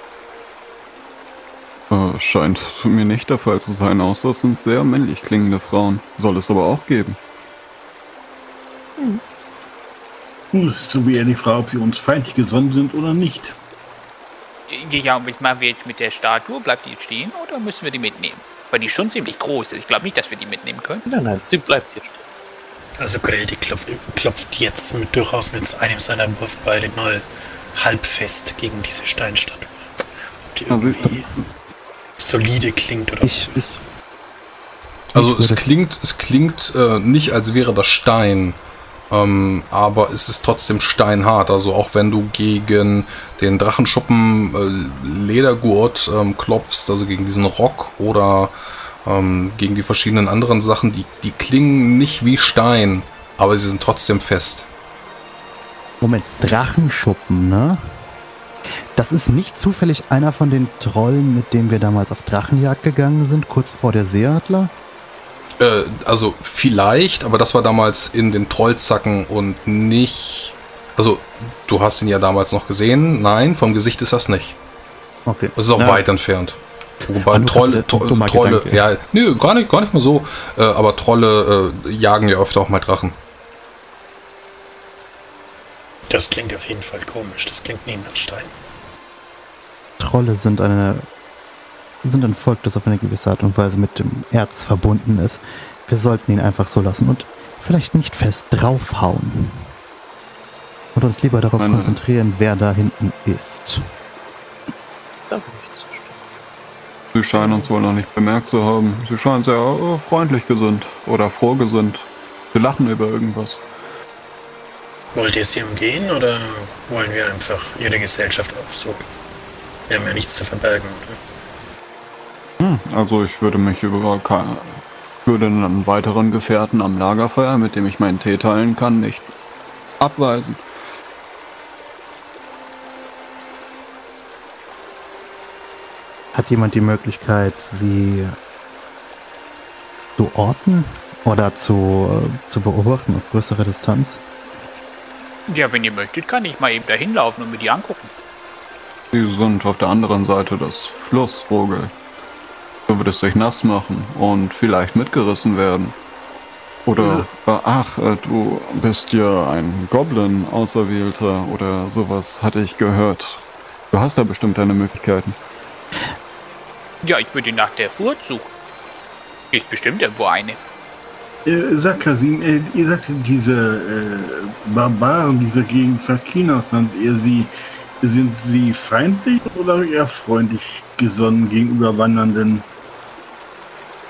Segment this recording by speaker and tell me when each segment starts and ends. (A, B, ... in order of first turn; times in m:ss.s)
0:01.9-0:07.2 A
0:09.0-0:09.2 B
0:10.5-0:13.6 C
0:14.7-0:21.0 D
0:21.1-0:22.2 B
0:23.0-0:29.8 E
0:30.5-0:31.3 E
0:30.7-0:31.4 A
0:32.2-0:33.5 E
0:33.2-0:33.8 F
0:35.1-0:35.7 F
0:35.1-0:38.6 G
0:39.1-0:48.5 G
0:49.1-0:54.7 G
0:56.0-0:57.8 F
0:59.0-1:04.7 F
1:05.6-1:14.6 G
1:15.3-1:16.0 F
1:15.6-1:23.2 G
1:17.3-1:18.8 F
1:26.1-1:28.5 E
1:30.0-1:31.1 F
1:32.0-1:39.7 F
1:41.0-1:43.8 F
1:41.6-1:42.0 A
1:45.3-1:46.2 B
1:47.1-1:53.6 A
1:47.4-1:47.7 B
1:55.1-1:59.0 E
1:59.9-2:01.2 E
2:02.6-2:09.3 A
2:10.0-2:10.6 A
2:16.3-2:18.4 F
2:20.2-2:24.2 F
2:25.5-2:28.1 D
2:29.1-2:31.9 A
2:32.9-2:36.0 A
2:36.9-2:45.4 A
2:37.0-2:37.3 C
2:47.0-2:48.5 D
2:49.5-2:50.6 D
2:51.4-3:02.7 C